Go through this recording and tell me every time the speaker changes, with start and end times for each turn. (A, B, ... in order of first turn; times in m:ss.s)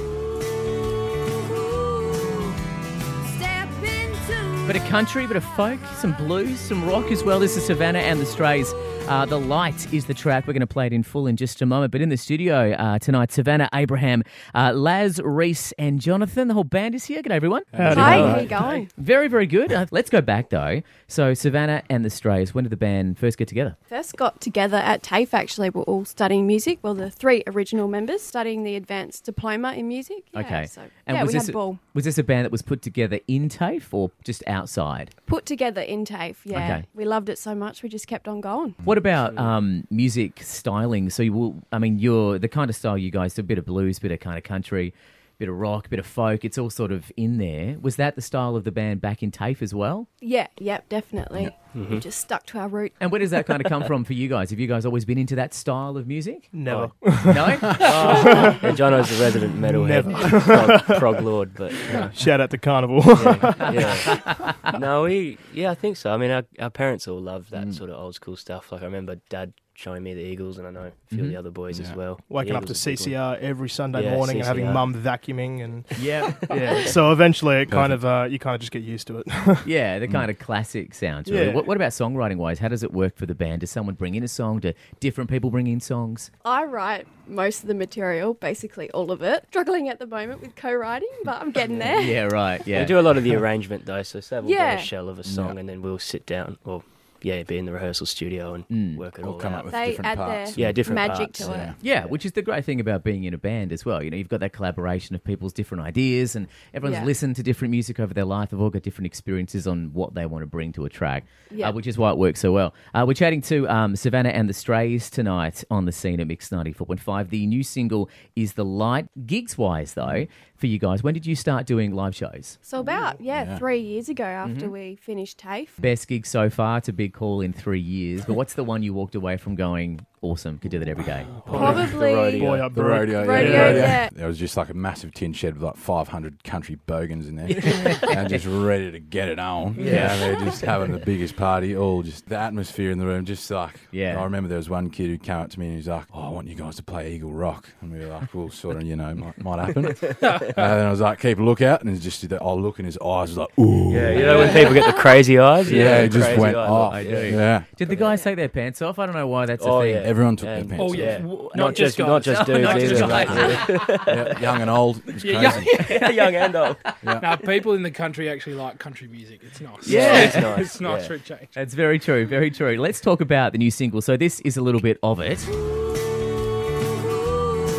0:00.5-0:02.5 A
0:03.2-0:04.7 A
0:04.7-0:18.4 B
0:17.7-0:18.7 C
0:17.8-0:18.3 D
0:17.9-0:18.9 A
0:19.0-0:23.8 B
0:23.9-0:31.8 A
0:30.4-0:35.1 B
0:35.3-0:38.8 A
0:36.5-0:36.8 B
0:38.8-0:50.1 B
0:50.2-0:53.1 A
0:51.8-0:52.0 E
0:53.0-0:56.5 B
0:56.5-0:58.6 D
0:56.7-0:56.9 E
0:57.2-0:58.3 B
0:57.8-1:02.2 E
0:59.7-1:04.5 D
1:03.1-1:13.2 E
1:11.1-1:11.4 B
1:11.7-1:12.0 C
1:12.3-1:19.7 D
1:13.9-1:15.0 E
1:17.7-1:18.0 C
1:19.6-1:26.3 B
1:21.3-1:21.7 D
1:26.4-1:32.2 A
1:31.9-1:33.1 B
1:32.7-1:39.8 E
1:34.4-1:34.9 A
1:35.2-1:35.6 C
1:38.7-1:39.0 B
1:39.2-1:41.8 C
1:39.7-1:41.7 A
1:40.6-1:42.2 E
1:41.8-2:02.6 B
1:46.8-1:47.1 A
2:02.6-2:05.8 A
2:03.3-2:03.6 C
2:04.4-2:04.8 B
2:05.8-2:11.4 B
2:11.4-2:12.7 E
2:11.5-2:11.9 C
2:11.5-2:12.6 A
2:12.4-2:14.0 D
2:12.7-2:34.7 C
2:13.1-2:14.1 A
2:17.7-2:18.5 B
2:19.8-2:20.2 E
2:19.8-2:20.2 B
2:23.9-2:24.3 B
2:33.9-2:37.4 E
2:35.6-2:37.7 C
2:35.7-2:40.1 B
2:39.6-2:44.5 E
2:40.0-2:41.3 C
2:40.8-2:43.4 F
2:42.3-2:43.9 B
2:43.0-2:45.8 C
2:45.3-2:46.0 F
2:45.7-2:46.1 B
2:45.8-2:46.8 E
2:47.0-2:47.3 C
2:47.2-2:51.5 F
2:49.8-2:51.2 E
2:49.8-2:50.7 B
2:51.6-2:55.5 B